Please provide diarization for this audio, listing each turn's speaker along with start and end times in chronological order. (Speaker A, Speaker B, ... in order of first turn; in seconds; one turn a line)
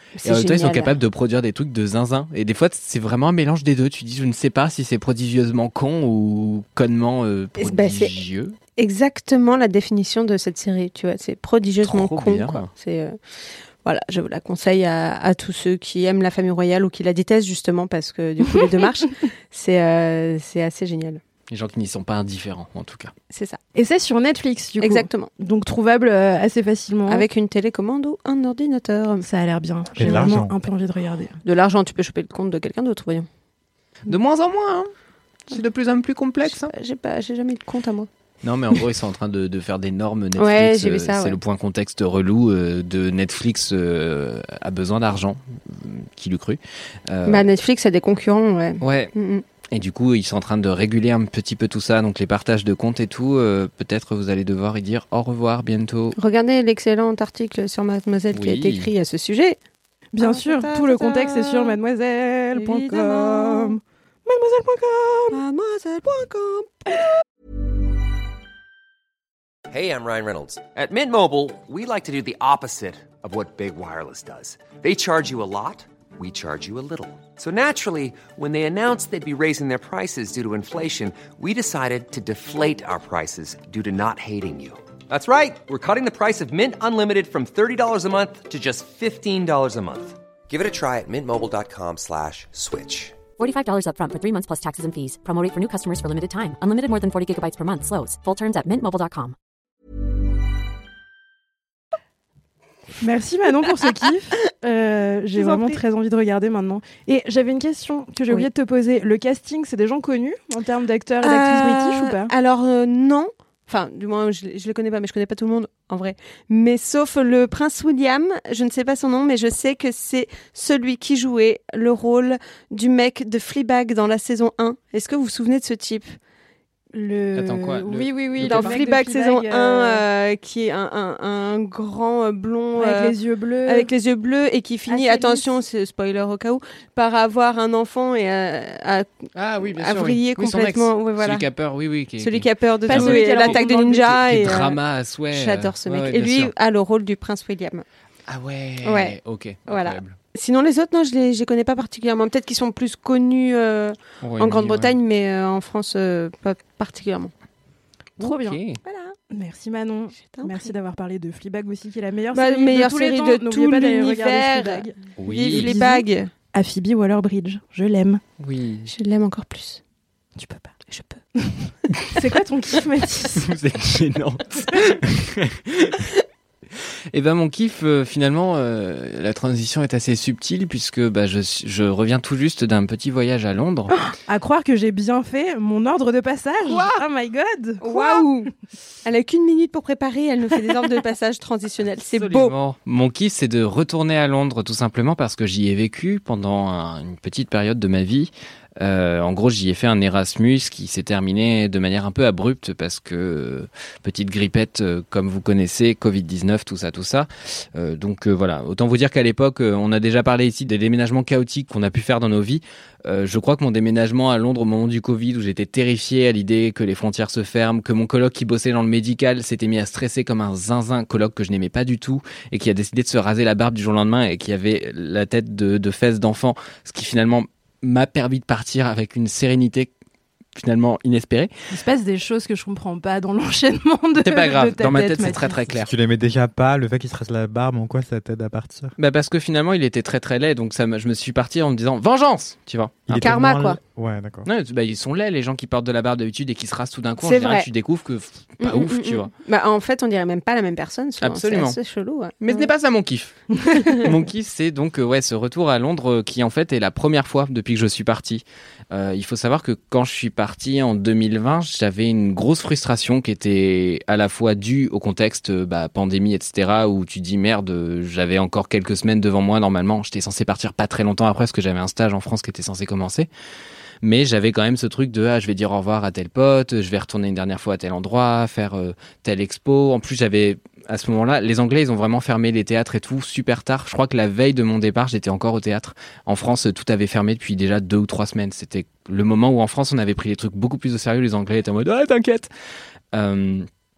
Speaker A: 0.2-0.9
Speaker B: 0.2-8.5
Speaker A: 7.6-8.2
Speaker A: 8.8-13.2
Speaker B: 11.8-12.7
Speaker A: 13.8-21.2
Speaker B: 21.5-23.1
Speaker A: 23.3-23.6
Speaker C: 23.7-27.2
Speaker A: 24.8-25.3
Speaker A: 27.1-29.2
Speaker C: 29.2-31.4
Speaker D: 29.9-30.6
Speaker A: 31.4-33.3
Speaker B: 34.0-34.9
Speaker B: 35.5-36.7
Speaker A: 36.4-38.1
Speaker B: 38.4-47.5
Speaker A: 40.4-41.4
Speaker A: 47.2-49.4
Speaker B: 48.8-49.1
Speaker B: 49.7-56.2
Speaker A: 56.2-59.6
Speaker B: 58.3-58.9
Speaker C: 60.1-65.4
Speaker A: 60.2-61.8
Speaker A: 62.5-63.8
Speaker A: 65.3-66.9
Speaker E: 69.7-93.2
Speaker F: 93.4-99.3
Speaker C: 103.0-112.3
Speaker A: 105.3-105.8
Speaker A: 111.2-126.2
Speaker C: 126.9-130.0
Speaker B: 127.3-128.8
Speaker A: 128.4-141.5
Speaker C: 132.8-133.9
Speaker C: 134.9-135.5
Speaker B: 139.3-146.5
Speaker A: 142.2-144.8
Speaker C: 142.9-144.2
Speaker A: 145.3-147.8
Speaker B: 148.3-150.2
Speaker A: 148.8-149.2
Speaker A: 149.7-157.3
Speaker B: 154.2-154.9
Speaker B: 158.2-158.8
Speaker C: 158.2-158.6
Speaker A: 158.8-159.2
Speaker C: 159.3-168.2
Speaker A: 160.2-160.7
Speaker A: 162.3-166.3
Speaker B: 165.2-165.7
Speaker B: 168.4-168.9
Speaker A: 168.9-169.8
Speaker C: 170.4-170.7
Speaker A: 170.9-171.2
Speaker C: 172.1-173.5
Speaker B: 173.3-176.1
Speaker B: 177.1-184.0
Speaker C: 183.9-188.2
Speaker B: 186.7-187.0
Speaker A: 187.8-188.5
Speaker A: 189.0-192.5
Speaker B: 192.1-229.9
Speaker B: 230.6-231.5
Speaker C: 231.7-235.7
Speaker B: 234.2-235.9
Speaker D: 235.8-238.9
Speaker B: 239.0-243.2
Speaker D: 243.1-244.5
Speaker A: 243.1-243.8
Speaker B: 244.4-249.3
Speaker A: 247.2-247.7
Speaker A: 248.6-252.7
Speaker B: 251.2-251.8
Speaker B: 252.4-273.3
Speaker A: 253.7-254.1
Speaker B: 274.0-292.5
Speaker B: 293.1-293.7